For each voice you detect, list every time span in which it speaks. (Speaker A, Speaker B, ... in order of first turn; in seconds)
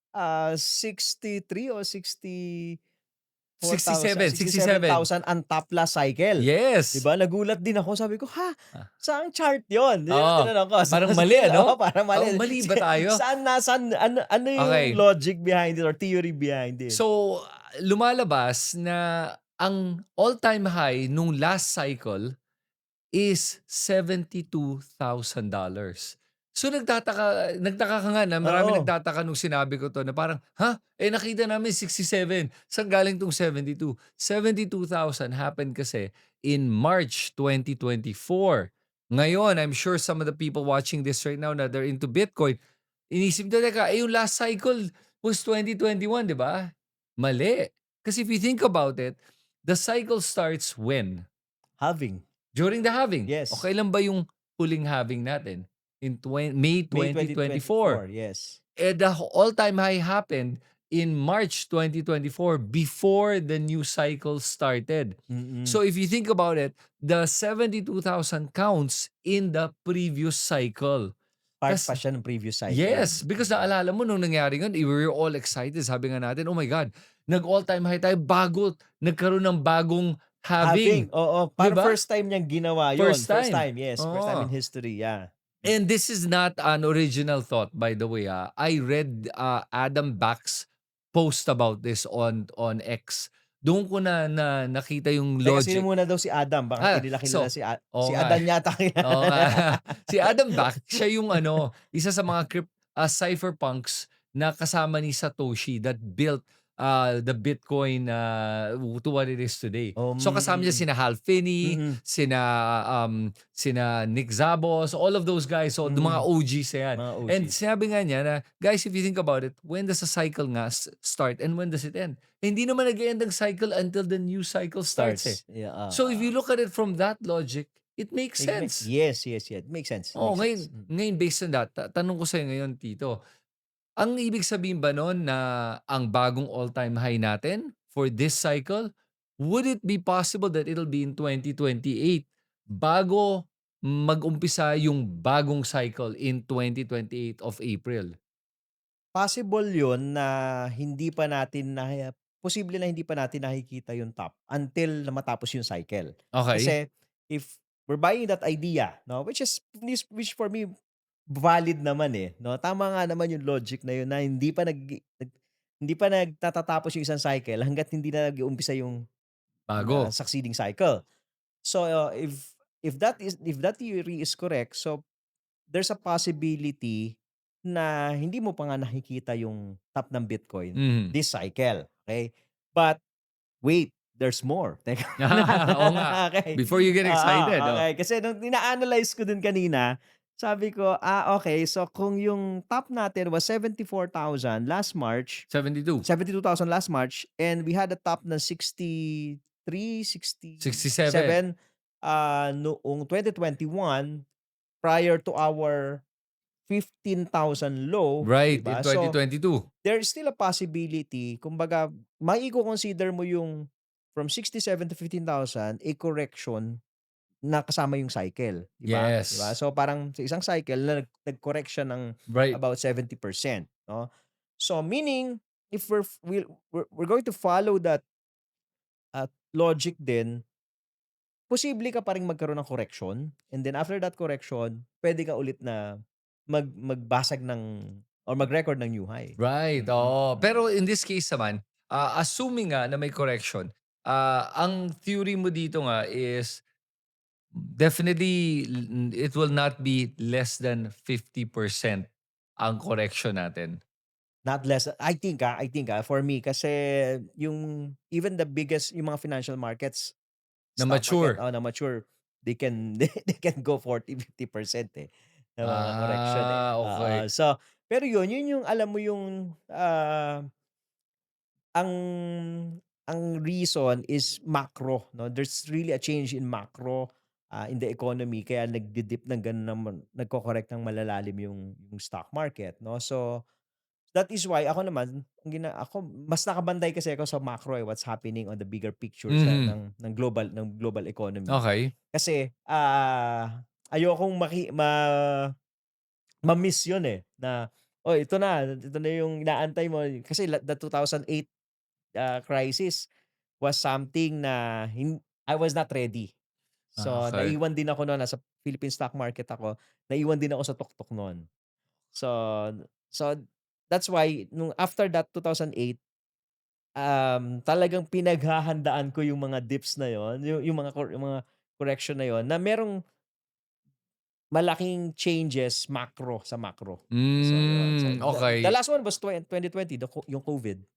Speaker A: 0.2-2.8, 3.6-17.0, 28.4-28.9, 51.8-52.2, 53.3-53.6, 56.9-58.6, 65.3-65.8, 71.6-73.7, 80.6-85.7, 95.5-100.3, 110.0-110.8, 111.7-112.0, 115.9-116.2, 117.0-117.5, 125.0-126.3, 128.4-130.9, 149.2-160.7, 161.4-165.3, 165.8-169.0, 169.8-171.0, 171.7-175.0, 175.7-177.2, 177.7-183.0, 183.6-195.4, 196.1-201.5, 202.1-204.2, 204.8-206.0, 206.7-209.2, 209.8-213.6, 214.2-216.8, 217.5-224.1, 224.6-228.0, 229.2-230.4, 231.5-235.8, 236.5-240.6, 254.4-260.1, 260.8-270.4, 271.8-283.4, 284.1-291.6, 292.1-295.5, 296.5-301.5, 302.2-303.0, 303.6-306.3, 307.0-311.4, 312.1-313.4, 313.9-316.0, 317.0-322.9, 324.5-330.8
Speaker B: 3.6-5.0, 6.4-7.0, 10.1-13.2, 14.6-15.0, 16.9-22.2, 23.2-42.6, 43.1-51.3, 52.5-58.0, 58.8-71.1, 71.7-72.0, 72.7-81.1, 81.6-82.0, 83.0-84.5, 85.7-95.9, 96.8-98.4, 99.0-125.4, 125.9-128.9, 130.2-133.2, 134.0-138.9, 139.4-148.1, 156.3-156.7, 169.7-170.1, 180.8-181.1, 185.2-187.8, 195.5-196.1, 200.6-201.4, 208.2-209.7, 218.9-219.5, 222.3-222.6, 239.4-246.6, 247.5-253.8, 260.8-261.4, 265.6-267.2, 289.3-289.8, 291.5-291.9, 307.0-307.6, 327.1-328.7